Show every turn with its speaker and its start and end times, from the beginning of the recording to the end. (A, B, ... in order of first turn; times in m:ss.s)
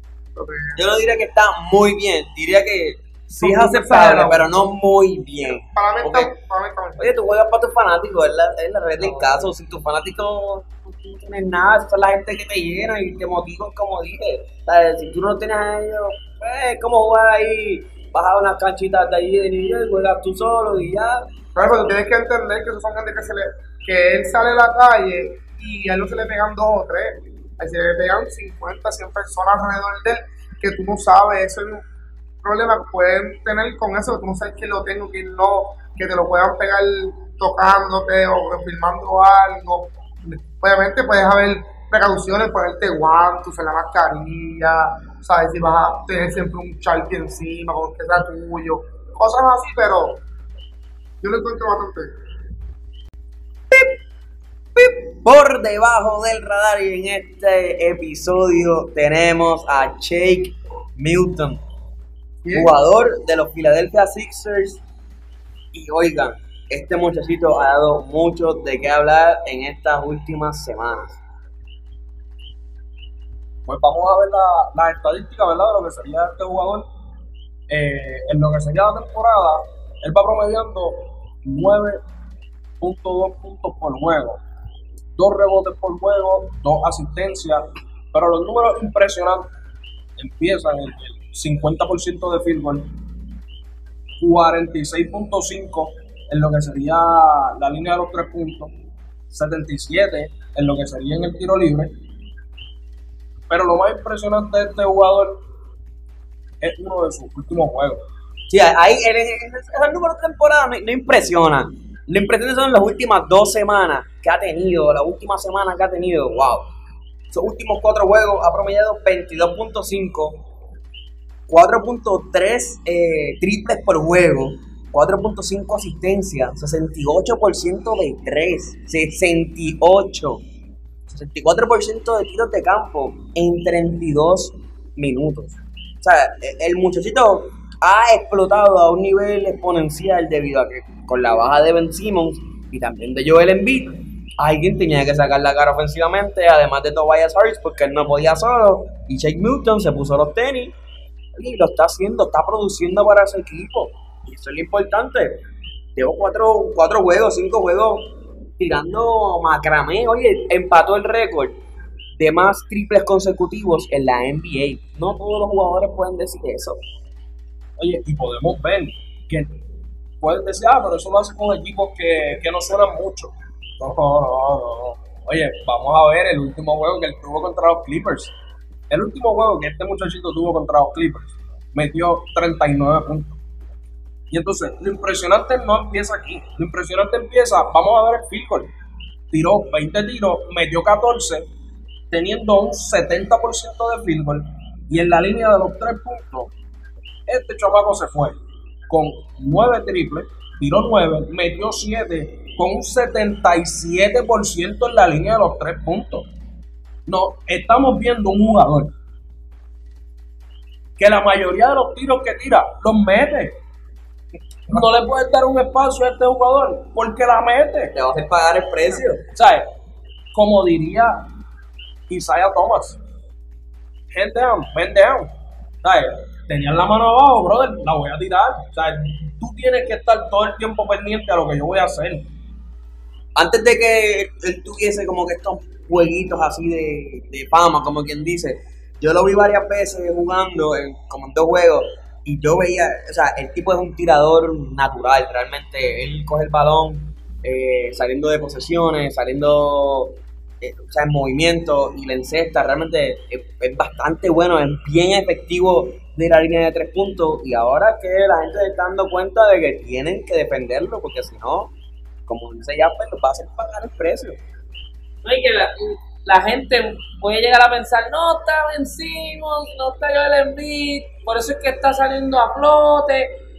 0:00.4-0:00.8 A
0:00.8-0:06.3 B
0:03.4-0:04.5 A
0:05.7-0:07.1 A
0:07.0-0:21.2 B
0:09.0-0:09.4 A
0:21.6-0:31.8 A
0:32.4-0:50.2 A
0:51.2-0:52.1 A
0:54.7-1:01.6 B
1:02.4-1:02.7 A
1:02.5-1:04.8 B
1:05.7-1:11.2 B
1:13.6-1:16.9 C
1:17.7-1:22.0 C
1:22.8-1:24.4 C
1:25.2-1:29.5 C
1:30.2-1:32.9 C
1:34.2-1:38.7 C
1:39.3-1:41.9 C
1:43.5-1:45.4 C
1:46.6-1:48.0 C
1:48.5-1:56.7 B
1:57.3-2:00.4 B
2:01.5-2:10.4 B
2:11.1-2:30.7 B
2:31.4-2:35.4 B
2:36.0-2:41.6 B
2:42.2-2:46.8 B
2:47.8-2:49.5 C
2:50.2-2:58.3 C
2:58.9-3:03.4 C
3:04.3-3:08.7 C
3:09.3-3:11.5 C
3:12.1-3:16.5 C
3:17.3-3:18.4 C
3:18.9-3:26.3 C
3:27.1-3:28.9 C
3:31.0-3:33.6 C
3:34.7-3:37.9 C
3:37.9-3:39.2 B
3:39.3-3:39.7 C
3:40.3-3:41.2 C
3:42.1-3:43.0 C
3:44.1-3:45.3 C
3:45.8-3:52.3 C
3:53.4-4:21.7 B
4:22.3-4:24.4 B
4:25.2-4:33.4 D